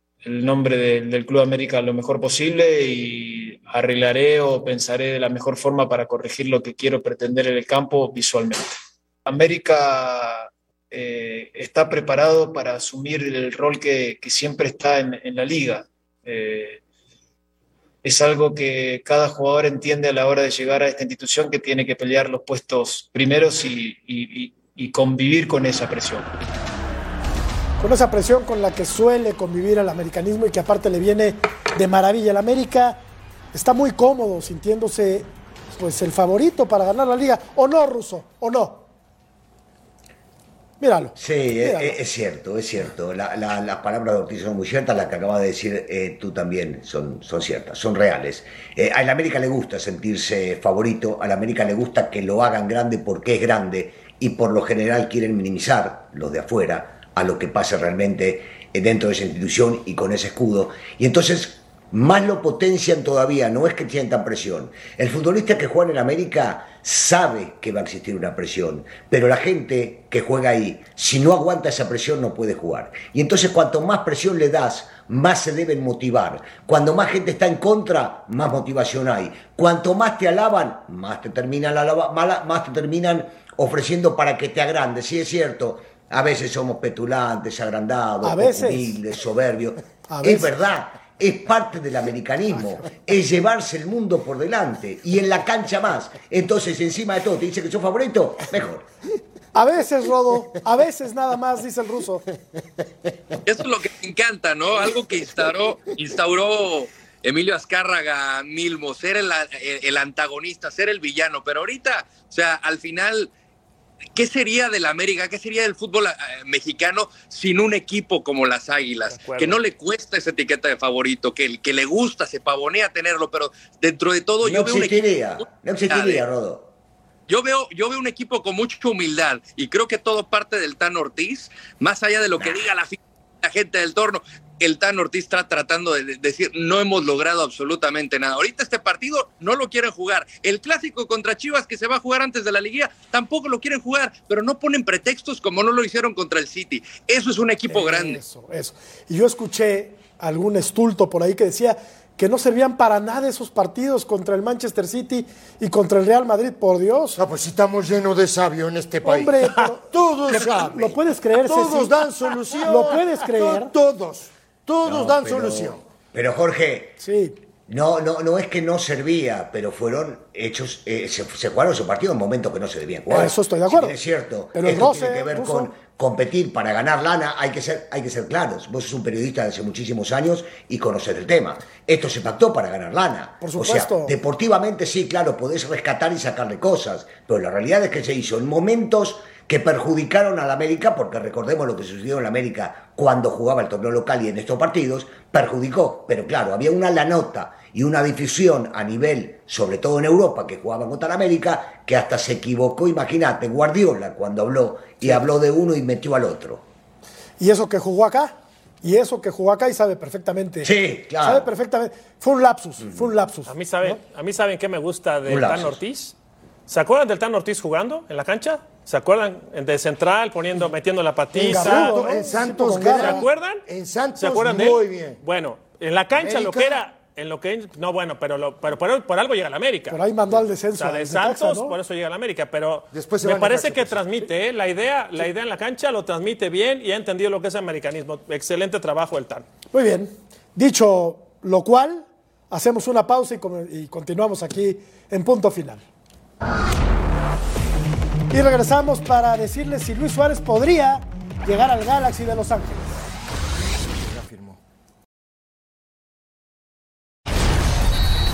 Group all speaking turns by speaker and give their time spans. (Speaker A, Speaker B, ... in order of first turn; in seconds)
Speaker A: 0.2-8.7, 9.2-16.8, 18.0-26.3
Speaker B: 27.8-33.0, 33.5-38.8, 40.8-42.0, 88.2-88.9, 90.1-90.5, 99.5-102.3, 147.7-157.2, 159.0-162.0, 162.6-163.7, 167.0-167.4, 173.1-173.9, 174.5-175.7, 183.4-184.1, 207.4-214.0, 221.4-223.2, 229.9-231.8, 239.7-245.8, 248.3-253.0
Speaker C: 41.2-98.8, 124.4-126.7, 132.4-132.7, 164.8-167.0, 167.7-206.6, 210.6-211.5, 215.3-215.8
Speaker D: 103.5-113.3, 114.2-125.0, 125.9-126.2, 127.3-148.2
Speaker E: 119.1-119.6, 213.4-216.1, 216.7-222.0, 222.8-223.6, 224.2-230.0, 230.8-239.5
Speaker F: 157.2-165.8, 221.3-225.2, 226.1-226.8, 232.9-234.1, 253.9-254.6